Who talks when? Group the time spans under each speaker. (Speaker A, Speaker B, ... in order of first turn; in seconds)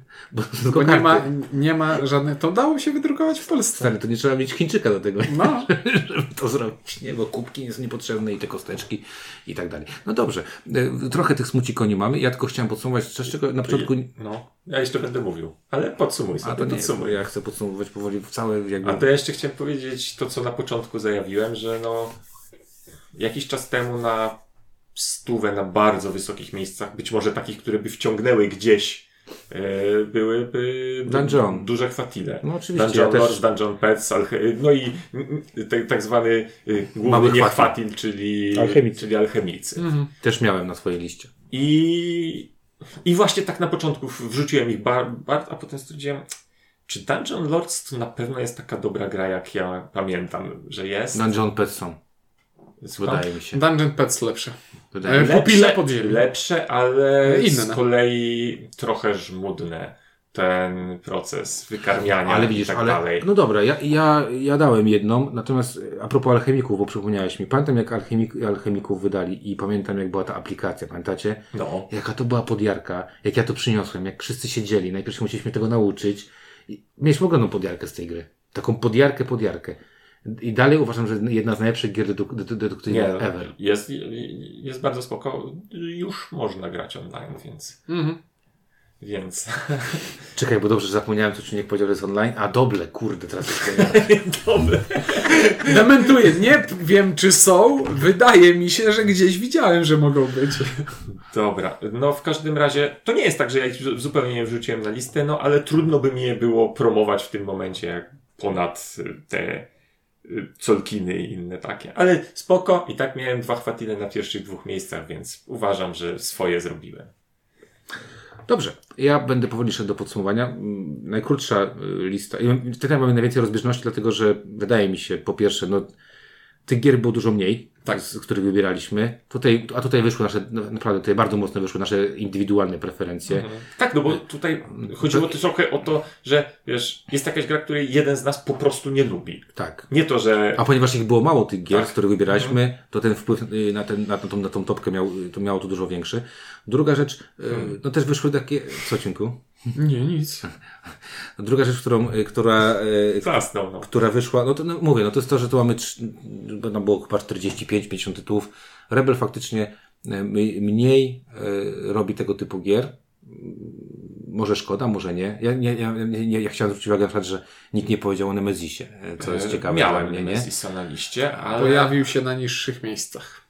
Speaker A: 0.3-1.3, 3.8-14.1, 16.4-19.1, 31.1-31.7, 32.4-33.5, 37.0-37.7, 38.5-39.0, 40.2-41.3, 51.1-52.0, 52.9-53.6, 54.9-55.3, 62.2-83.5, 90.3-94.1, 118.5-125.9, 126.6-133.5, 134.8-135.3, 139.6-139.9, 140.6-149.4, 151.4-170.5
Speaker B: 0.7-3.9, 5.3-5.7, 39.8-40.1, 53.5-56.2, 57.2-57.8, 87.9-88.2, 95.6-100.9, 149.7-150.5, 171.6-173.4
Speaker C: 13.6-17.2, 18.8-22.2, 23.1-24.4, 24.9-39.8, 41.5-42.5, 43.0-46.3, 46.9-51.2, 52.8-53.3, 55.1-63.3, 71.5-71.9, 82.9-87.8, 89.0-90.1, 93.7-95.9, 101.1-109.7, 110.2-117.1, 133.3-140.6, 141.7-142.6, 153.2-153.9, 169.2-172.0